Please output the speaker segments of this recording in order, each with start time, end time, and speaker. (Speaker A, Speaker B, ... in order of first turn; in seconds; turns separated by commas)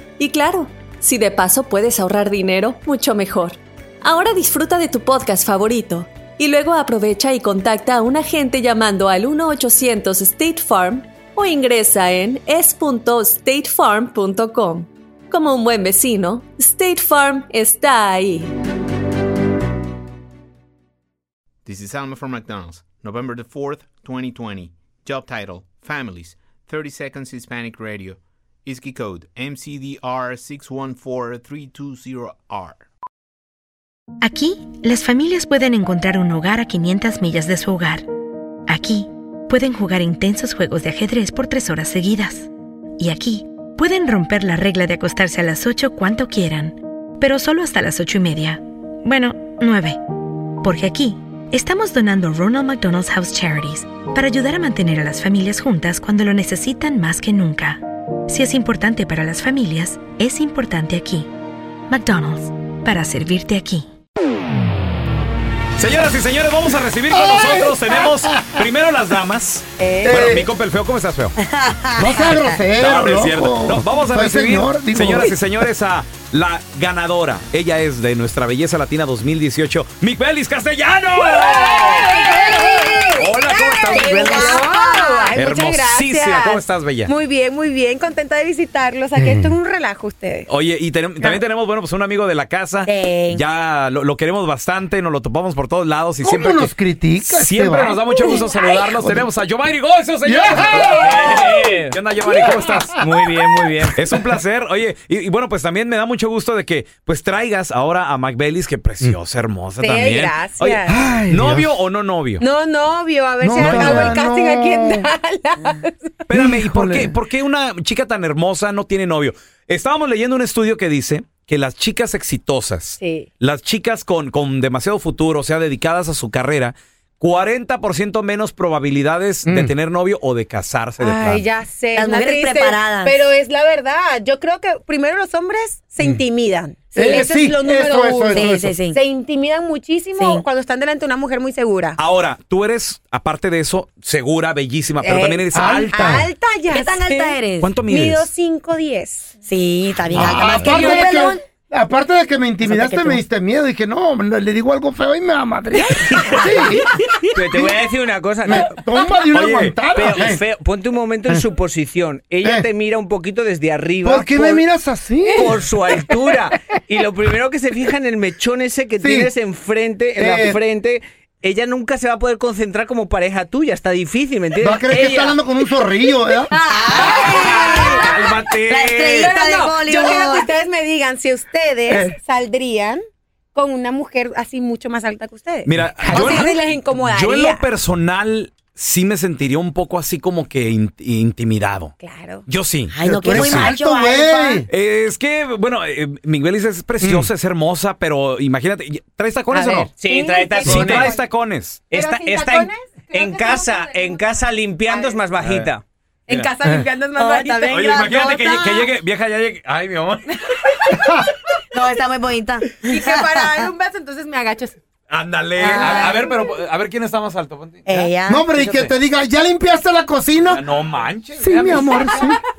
Speaker A: 0.2-18.5, Speaker B: 21.6-32.9, Speaker C: 34.2-38.1, Speaker C: 38.7-42.5, Speaker C: 43.0-50.0, Speaker C: 50.6-61.3, Speaker C: 61.9-63.9, Speaker D: 65.8-71.3, Speaker E: 67.1-68.6, Speaker F: 69.8-70.3, Speaker E: 70.1-70.5, Speaker F: 71.4-72.6, Speaker E: 72.0-75.6, Speaker D: 72.8-82.2, Speaker F: 81.4-83.1, Speaker G: 81.8-90.5, Speaker D: 83.2-84.8, Speaker F: 83.6-85.4, Speaker D: 85.3-87.1, Speaker E: 89.2-89.6, Speaker D: 90.5-103.0, Speaker F: 92.9-93.4, Speaker E: 96.2-99.3, Speaker E: 100.2-101.4, Speaker H: 100.6-102.0, Speaker E: 102.3-103.0, Speaker H: 103.0-104.0, Speaker D: 104.0-112.5, Speaker G: 109.8-111.0, Speaker E: 110.9-111.7, Speaker G: 112.4-116.1, Speaker E: 113.4-115.1, Speaker D: 113.6-114.0, Speaker D: 116.3-131.5, Speaker E: 116.3-117.2, Speaker G: 123.0-123.3, Speaker E: 129.5-129.7, Speaker G: 131.0-142.0, Speaker F: 131.9-133.2, Speaker E: 136.9-138.8, Speaker F: 138.3-139.0, Speaker F: 140.2-140.4, Speaker D: 142.0-146.2, Speaker G: 145.0-149.3, Speaker E: 145.5-146.3, Speaker F: 146.7-147.7, Speaker D: 147.6-148.3, Speaker F: 149.4-151.4, Speaker E: 150.2-157.8, Speaker D: 150.2-150.9, Speaker F: 152.6-153.2, Speaker H: 157.3-158.8, Speaker E: 158.4-160.4, Speaker D: 159.3-159.8, Speaker H: 159.9-164.7, Speaker E: 164.0-165.6, Speaker H: 165.3-175.4, Speaker E: 169.0-169.3, Speaker E: 170.2-170.6, Speaker E: 174.6-176.5, Speaker G: 176.5-178.3, Speaker F: 176.7-178.0, Speaker D: 177.0-179.3, Speaker F: 178.7-180.5, Speaker G: 179.2-183.0, Speaker E: 181.9-182.2, Speaker G: 183.5-187.6, Speaker D: 185.7-193.7, Speaker G: 192.0-192.4, Speaker F: 192.9-194.7, Speaker E: 193.1-194.7, Speaker D: 194.7-200.0, Speaker E: 197.0-197.3, Speaker G: 199.5-201.2, Speaker H: 200.0-201.2, Speaker D: 200.6-201.9, Speaker H: 201.9-205.8, Speaker G: 201.9-205.2, Speaker D: 205.4-205.7, Speaker D: 206.3-206.6, Speaker G: 206.3-207.8, Speaker F: 207.2-208.9, Speaker D: 207.7-210.6, Speaker E: 210.9-211.3, Speaker F: 211.7-213.7, Speaker G: 212.8-214.8, Speaker D: 215.1-218.9, Speaker F: 215.6-216.3, Speaker F: 217.9-218.5, Speaker E: 218.3-220.6, Speaker D: 220.4-222.2, Speaker E: 221.4-222.4